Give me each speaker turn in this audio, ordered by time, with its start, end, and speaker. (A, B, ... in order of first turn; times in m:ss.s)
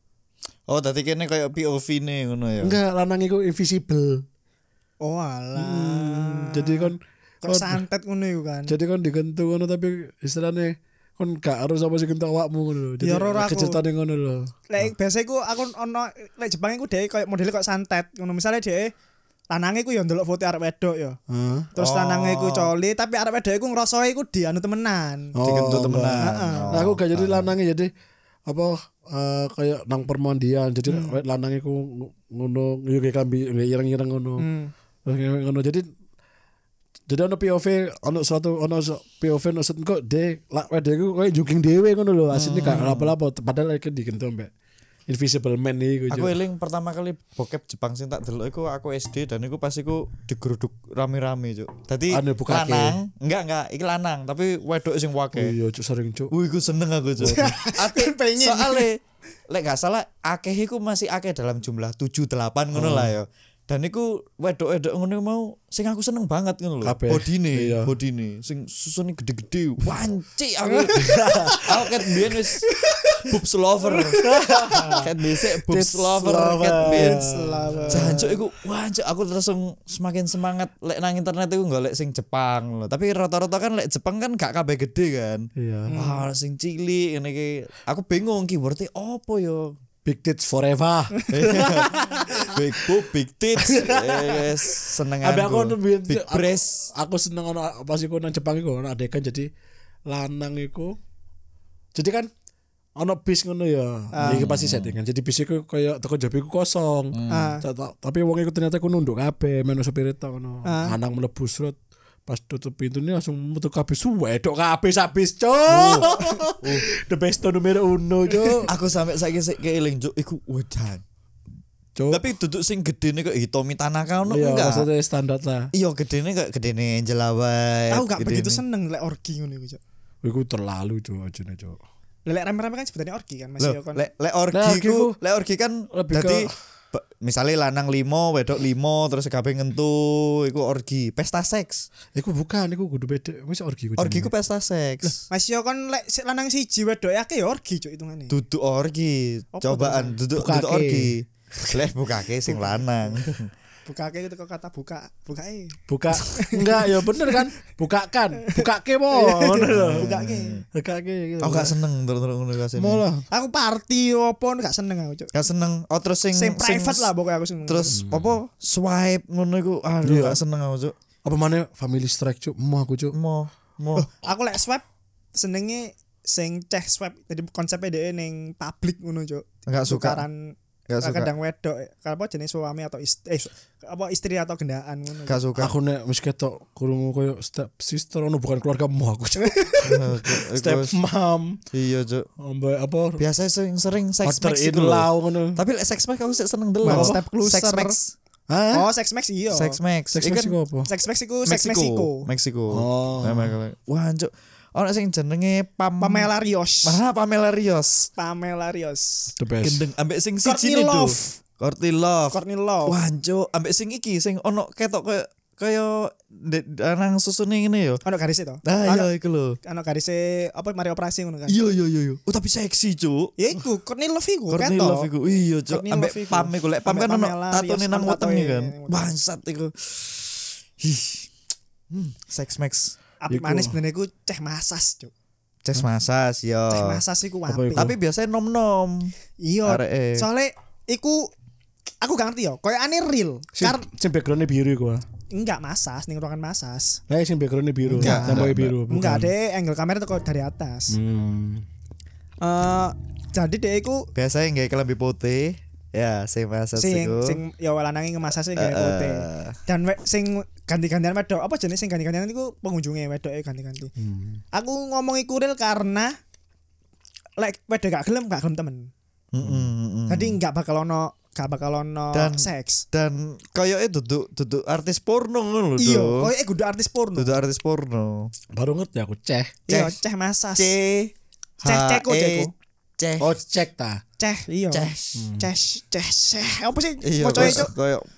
0:00.7-0:02.8 A
0:02.6-0:04.2 B
0:05.0-0:08.7 C
0:05.6-0:07.8 B
0:08.7-0:14.5 B
0:13.0-0:13.8 C
0:14.7-0:18.9 C
0:19.5-0:21.2 C
0:21.3-0:21.7 B
0:21.7-0:25.4 C
0:21.8-0:22.7 A
0:25.4-0:27.9 B
0:25.4-0:27.5 A
0:26.2-0:26.8 C
0:28.5-0:34.5 B
0:30.9-0:31.2 C
0:34.4-0:34.7 C
0:35.0-0:35.9 B
0:37.1-0:44.5 B
0:42.3-0:43.1 A
0:45.1-0:46.4 B
0:46.1-0:55.5 A
0:52.1-0:53.0 B
0:55.3-0:56.3 B
0:56.3-1:11.0 A
0:57.2-0:57.5 B
0:57.2-0:58.9 C
1:02.7-1:03.1 B
1:06.8-1:07.9 B
1:10.7-1:11.6 C
1:10.9-1:11.7 B
1:11.6-1:12.7 A
1:12.6-1:13.3 C
1:13.2-1:14.2 A
1:13.9-1:15.0 C
1:14.2-1:15.1 B
1:15.0-1:17.2 A
1:15.6-1:18.2 B
1:16.8-1:18.4 C
1:17.9-1:29.7 A
1:25.6-1:25.9 B
1:25.9-1:26.2 C
1:30.0-1:32.6 B
1:31.3-1:36.9 A
1:33.6-1:39.5 B
1:40.1-1:41.0 B
1:41.9-1:42.3 B
1:43.0-1:51.8 B
1:44.1-1:44.4 C
1:44.2-1:45.0 A
1:47.1-1:47.5 A
1:47.3-1:47.6 C
1:50.6-1:51.0 C
1:52.3-1:58.7 B
1:55.7-1:56.9 A
1:56.1-1:56.4 C
1:58.6-2:01.0 A
2:02.0-2:02.2 B
2:02.1-2:04.9 A
2:04.3-2:05.7 B
2:05.7-2:08.6 A
2:07.9-2:09.8 C
2:10.2-2:11.8 B
2:12.2-2:14.0 C
2:13.6-2:21.9 A
2:14.5-2:15.2 B
2:15.9-2:16.5 B
2:22.1-2:24.3 B
2:24.0-2:25.2 A
2:25.0-2:28.4 C
2:28.3-2:33.5 A
2:29.5-2:30.2 C
2:30.3-2:31.1 B
2:32.5-2:32.8 C
2:33.8-2:37.5 C
2:35.9-2:40.1 B
2:38.4-2:40.6 C
2:39.6-2:40.6 A
2:40.7-2:41.8 B
2:41.4-2:43.0 A
2:42.7-2:43.2 B
2:43.3-2:45.3 C
2:45.3-2:47.1 A
2:46.3-2:48.0 C
2:47.6-2:50.9 A
2:47.9-2:48.4 B
2:50.0-2:50.4 B
2:51.2-2:53.2 B
2:53.1-2:54.1 A
2:53.9-3:05.4 C
2:59.7-3:00.2 A
3:00.9-3:01.3 A
3:05.3-3:05.8 A
3:05.6-3:11.6 B
3:09.4-3:09.9 C
3:09.8-3:10.9 A
3:11.7-3:12.3 A
3:12.4-3:13.2 B
3:13.2-3:18.1 A
3:14.2-3:15.6 B
3:16.8-3:18.0 C
3:16.8-3:17.2 B
3:18.5-3:18.9 B
3:18.7-3:19.8 C
3:19.5-3:20.6 A
3:20.1-3:20.9 B
3:20.9-3:22.3 C
3:21.4-3:26.3 A
3:22.7-3:23.5 B
3:26.0-3:27.0 C
3:26.8-3:28.1 A
3:28.2-3:29.3 C
3:29.4-3:29.8 B
3:29.6-3:38.0 A
3:30.4-3:31.4 C
3:32.3-3:33.0 C
3:38.0-3:39.1 C
3:38.6-3:39.6 A
3:39.6-3:41.6 C
3:41.5-3:43.3 A
3:43.4-3:45.1 C
3:44.5-3:51.3 A
3:45.7-3:49.1 C
3:51.9-3:53.0 A
3:53.2-3:55.1 C
3:53.3-3:53.8 B
3:55.6-3:57.0 A
3:56.7-3:57.9 C
3:57.5-3:57.9 B
3:57.7-3:59.1 A
3:59.4-4:01.3 C
3:59.6-4:00.2 A
4:02.0-4:03.9 C
4:03.6-4:05.0 B
4:05.3-4:07.0 C
4:07.1-4:09.3 B
4:07.9-4:08.8 A
4:08.0-4:11.0 C
4:10.9-4:11.6 B
4:12.4-4:14.1 C
4:14.1-4:17.4 A
4:16.8-4:23.9 C
4:18.6-4:19.6 A
4:24.0-4:24.4 B
4:24.5-4:26.1 C
4:27.4-4:28.9 C
4:29.3-4:30.4 A
4:29.4-4:29.7 B
4:30.1-4:32.8 C
4:32.1-4:36.3 A
4:35.8-4:37.3 C
4:37.2-4:38.3 A
4:38.5-4:39.5 B
4:39.7-4:40.7 C
4:39.7-4:40.0 A
4:40.5-4:43.3 A
4:41.6-4:42.5 C
4:43.2-4:44.0 B
4:44.2-4:47.7 C
4:44.7-4:45.3 A
4:45.2-4:45.5 B
4:47.0-4:48.1 A
4:47.4-4:47.6 B